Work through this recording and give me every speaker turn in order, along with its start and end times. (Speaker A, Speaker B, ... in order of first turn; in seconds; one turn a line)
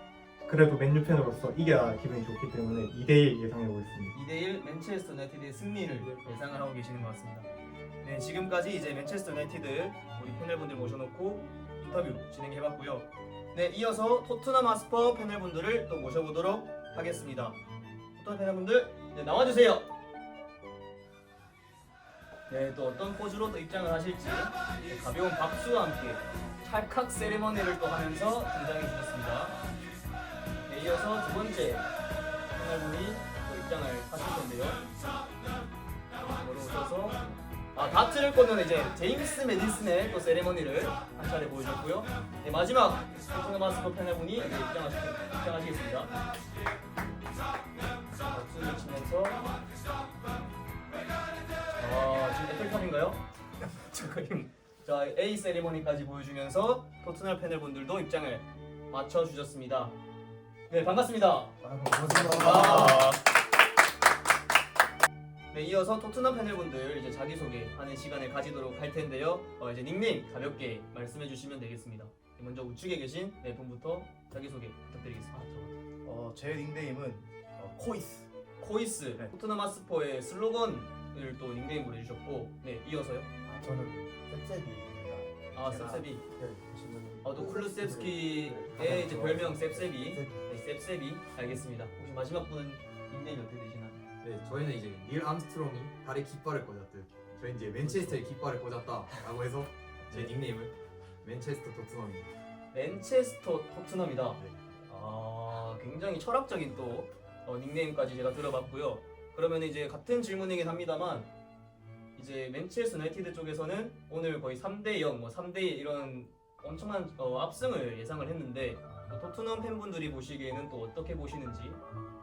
Speaker A: 0.4-4.1
Speaker B: 4.1-7.5
Speaker B: 8.0-17.6
Speaker B: 18.2-19.9
Speaker B: 22.5-29.6
Speaker B: 30.6-31.9
Speaker B: 32.5-34.8
Speaker B: 36.3-37.2
Speaker B: 37.7-46.1
Speaker B: 48.2-49.5
Speaker B: 51.8-53.2
Speaker B: 53.8-59.9
Speaker B: 60.7-61.5
Speaker C: 61.6-63.1
Speaker B: 62.1-63.2
Speaker B: 65.5-75.3
Speaker C: 75.3-78.3
Speaker B: 78.6-83.3
Speaker C: 83.4-90.3
Speaker B: 85.5-86.2
Speaker B: 87.2-94.0
Speaker D: 94.2-102.3
Speaker B: 97.8-98.2
Speaker B: 102.7-111.3
Speaker B: 112.1-121.8